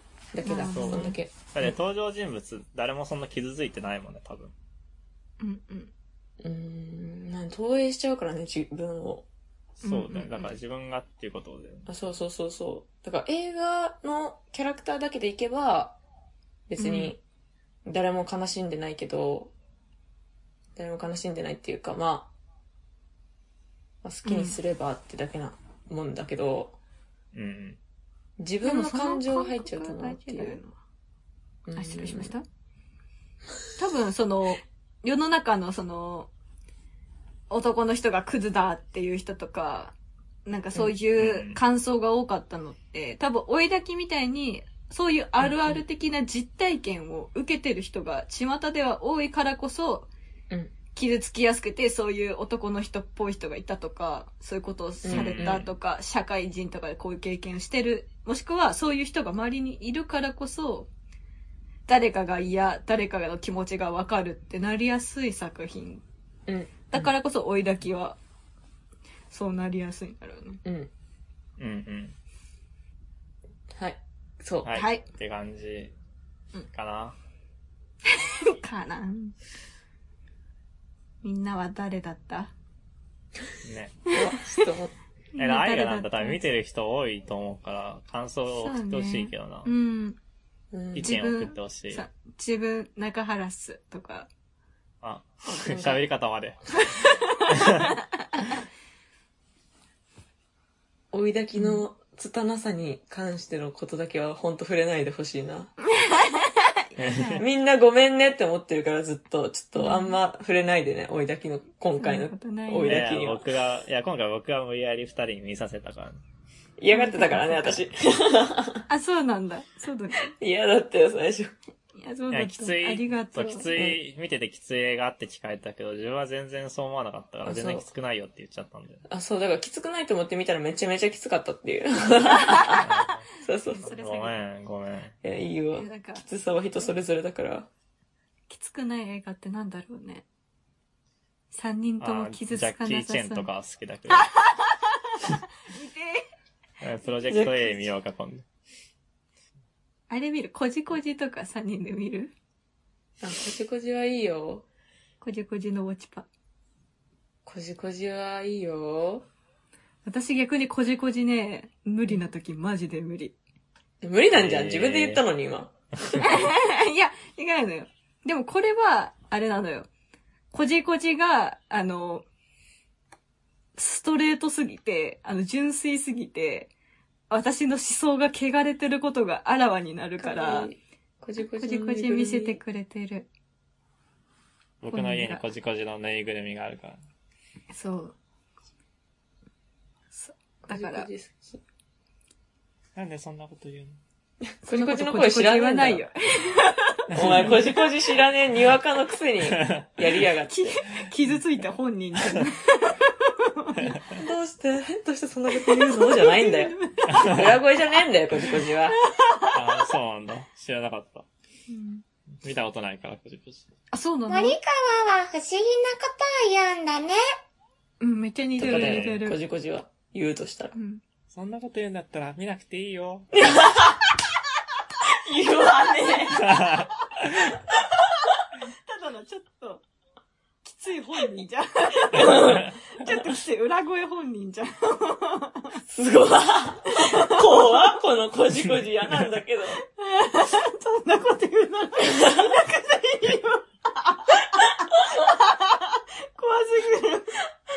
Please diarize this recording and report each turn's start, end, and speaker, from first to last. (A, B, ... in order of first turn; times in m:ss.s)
0:00.3-0:01.7 A
0:00.4-0:01.2 B
0:00.5-0:04.5 C
0:05.4-0:05.9 B
0:06.4-0:09.3 A
0:09.8-0:11.9 C
0:09.8-0:10.5 B
0:11.9-0:16.0 A
0:16.7-0:17.2 A
0:16.8-0:17.1 B
0:17.9-0:19.5 A
0:20.8-0:22.3 A
0:24.0-0:26.8 A
0:24.2-0:24.6 B
0:27.3-0:27.8 C
0:28.4-0:30.6 A
0:28.6-0:30.7 B
0:31.7-0:32.3 A
0:31.7-0:32.4 B
0:33.8-0:36.3 B
0:37.5-0:39.9 B
0:40.4-0:50.1 B
0:41.2-0:41.6 C
0:45.4-0:45.8 A
0:51.0-1:00.9 B
0:55.0-0:55.6 A
0:55.1-0:55.6 C
1:01.9-1:06.0 B
1:06.5-1:07.0 A
1:06.9-1:08.2 B
1:09.3-1:10.6 B
1:10.6-1:10.9 A
1:11.6-1:12.2 C
1:13.8-1:14.7 A
1:14.6-1:15.9 C
1:14.7-1:15.0 B
1:16.7-1:17.2 C
1:18.1-1:19.3 B
1:21.2-1:22.5 B
1:23.6-1:24.0 C
1:24.1-1:24.9 A
1:25.3-1:26.4 B
1:25.4-1:29.7 C
1:28.6-1:30.2 B
1:30.7-1:31.1 A
1:30.9-1:32.0 C
1:31.0-1:34.3 B
1:35.0-1:37.9 C
1:35.5-1:36.0 B
1:36.9-1:38.6 B
1:41.1-1:45.7 A
1:41.6-1:41.8 B
1:45.8-1:47.4 B
1:47.0-1:47.4 C
1:47.4-1:53.5 A
1:49.8-1:50.2 B
1:52.0-1:53.0 B
1:52.8-1:56.2 C
1:56.8-1:58.8 A
1:56.9-1:57.8 B
1:58.9-2:00.3 B
2:00.2-2:01.5 A
2:02.0-2:03.7 B
2:02.3-2:09.0 C
2:07.4-2:07.9 A
2:09.1-2:12.9 A
2:12.4-2:12.8 B
2:12.8-2:13.2 C
2:13.4-2:13.9 A
2:13.6-2:14.4 B
2:13.8-2:15.2 C
2:15.2-2:17.7 A
2:15.7-2:16.2 B
2:18.5-2:20.2 B
2:21.5-2:23.5 B
2:22.0-2:24.3 C
2:24.2-2:26.2 B
2:26.8-2:28.4 C
2:27.3-2:27.6 A
2:30.1-2:32.3 B
2:33.2-2:34.6 A
2:35.2-2:36.3 B
2:37.4-2:39.2 A
2:40.0-2:43.3 B
2:44.0-2:46.4 A
2:44.3-2:45.2 C
2:46.2-2:49.9 B
2:50.5-2:52.2 B
2:53.8-2:56.7 B
2:57.3-3:00.7 B
3:00.2-3:02.6 A
3:01.6-3:03.3 B
3:04.8-3:07.0 C
3:04.9-3:05.4 B
3:07.7-3:08.1 B
3:10.1-3:11.1 B
3:10.6-3:11.6 A
3:13.0-3:14.0 C
3:14.5-3:16.0 A
3:14.7-3:17.8 B
3:17.1-3:20.7 A
3:17.1-3:17.5 C
3:19.5-3:19.8 C
3:20.5-3:24.0 B
3:23.8-3:24.0 C
3:24.1-3:29.0 A
3:25.5-3:27.4 B
3:27.1-3:27.5 C
3:28.9-3:29.8 B
3:29.5-3:31.3 C
3:31.7-3:32.0 B
3:32.4-3:33.7 C
3:33.9-3:34.6 B
3:34.3-3:37.2 D
3:38.0-3:39.4 B
3:38.6-3:40.7 A
3:38.6-3:39.2 C
3:40.7-3:41.0 B
3:41.3-3:43.3 C
3:43.3-3:44.0 A
3:45.0-3:46.6 A
3:46.4-3:46.9 C
3:48.7-3:49.8 B
3:50.6-3:55.8 B
3:52.1-3:52.7 A
3:55.9-3:59.8 A
3:57.0-3:57.8 B
3:59.8-4:07.4 B
4:02.1-4:02.6 A